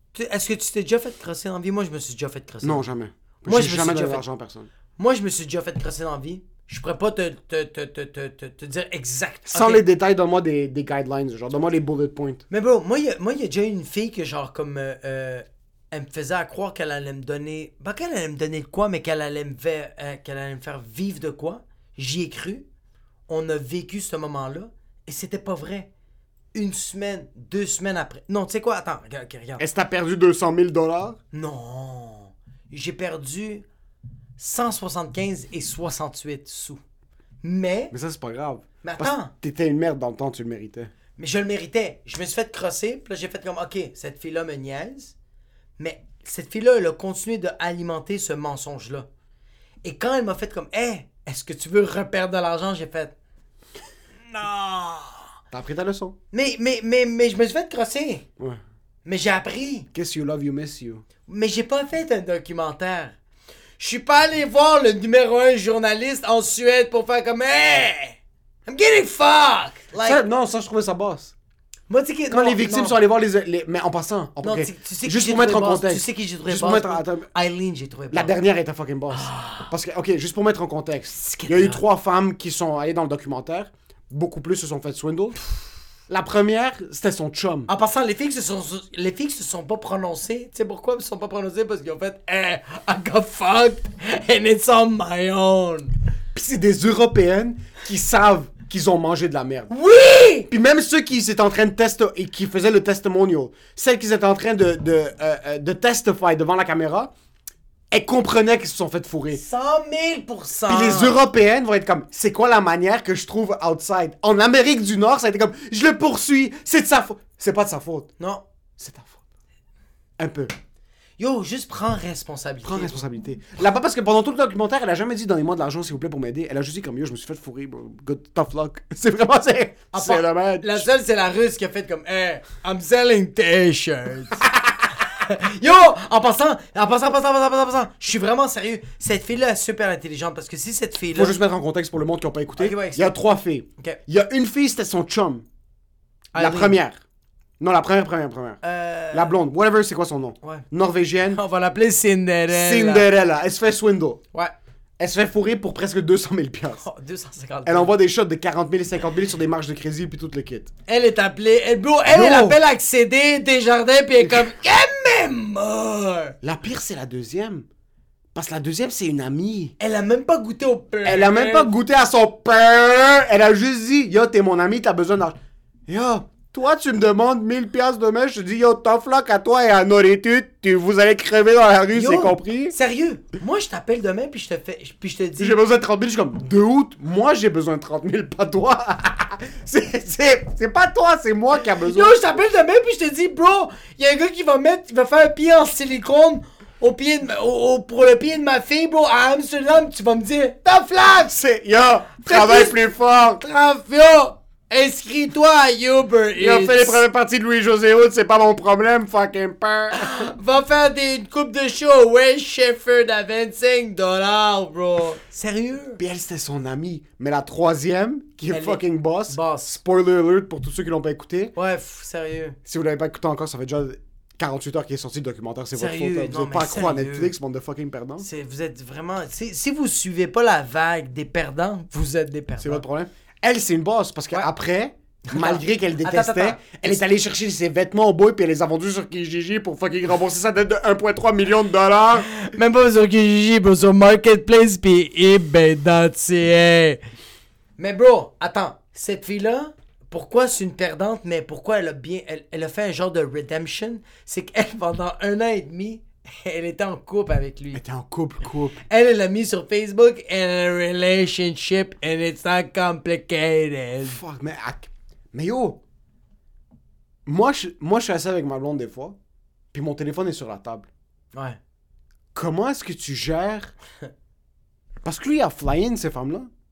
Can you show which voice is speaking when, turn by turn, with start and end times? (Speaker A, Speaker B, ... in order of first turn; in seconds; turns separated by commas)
Speaker A: 0.1-2.8, Speaker B: 2.6-4.7, Speaker A: 3.5-4.2, Speaker A: 5.0-9.8, Speaker B: 9.5-12.4, Speaker A: 12.5-22.6, Speaker A: 23.3-25.9, Speaker A: 26.5-29.6, Speaker B: 29.6-31.2, Speaker A: 31.3-33.6, Speaker A: 34.4-36.8, Speaker A: 37.4-37.9, Speaker B: 37.9-40.9, Speaker A: 38.8-39.3, Speaker A: 41.2-45.1, Speaker A: 45.8-49.1, Speaker A: 49.9-53.1, Speaker A: 54.3-55.2, Speaker B: 55.5-56.2, Speaker A: 56.3-58.2, Speaker A: 59.0-59.9, Speaker B: 59.9-61.0, Speaker A: 61.3-63.2, Speaker A: 63.8-70.2, Speaker B: 70.0-71.3, Speaker A: 71.9-73.0, Speaker B: 72.3-77.3, Speaker A: 74.4-78.3, Speaker B: 78.1-85.4, Speaker A: 79.1-79.7, Speaker A: 81.2-81.8, Speaker B: 86.1-87.7, Speaker A: 87.7-95.9, Speaker B: 96.3-99.7, Speaker A: 99.7-100.5, Speaker B: 100.5-107.1, Speaker B: 107.9-109.4, Speaker A: 109.3-111.2, Speaker B: 110.7-118.1, Speaker B: 118.8-119.2, Speaker B: 120.2-120.5, Speaker A: 121.2-123.0, Speaker B: 122.6-130.9, Speaker A: 129.9-134.5, Speaker A: 135.1-141.4, Speaker B: 141.1-145.4, Speaker A: 142.6-143.1, Speaker A: 146.3-146.8, Speaker B: 146.3-147.0, Speaker B: 147.6-148.6, Speaker A: 148.6-149.3, Speaker B: 149.1-151.4, Speaker A: 151.3-153.1, Speaker B: 152.5-154.2, Speaker B: 155.0-156.8, Speaker A: 156.8-157.9, Speaker B: 157.7-160.7, Speaker A: 160.9-166.3, Speaker B: 162.1-162.6, Speaker B: 166.4-167.7, Speaker B: 168.3-169.8, Speaker A: 169.8-171.7, Speaker B: 171.1-182.7, Speaker A: 181.9-185.6, Speaker B: 185.4-192.2, Speaker A: 191.8-201.4, Speaker B: 201.3-203.4, Speaker A: 202.2-202.8, Speaker A: 203.4-207.0, Speaker B: 206.4-210.2, Speaker A: 209.9-216.0, Speaker B: 216.0-221.5, Speaker A: 218.5-219.8, Speaker A: 221.6-222.6, Speaker B: 222.7-228.3, Speaker A: 225.7-227.3, Speaker A: 228.2-232.8, Speaker B: 232.6-242.3, Speaker A: 235.3-236.6, Speaker A: 242.3-247.0, Speaker A: 247.8-257.8, Speaker B: 257.7-258.8, Speaker A: 258.9-264.2, Speaker B: 264.0-265.8, Speaker B: 267.3-269.2, Speaker B: 269.7-270.9, Speaker A: 271.3-271.6, Speaker B: 272.4-273.7, Speaker B: 275.0-276.5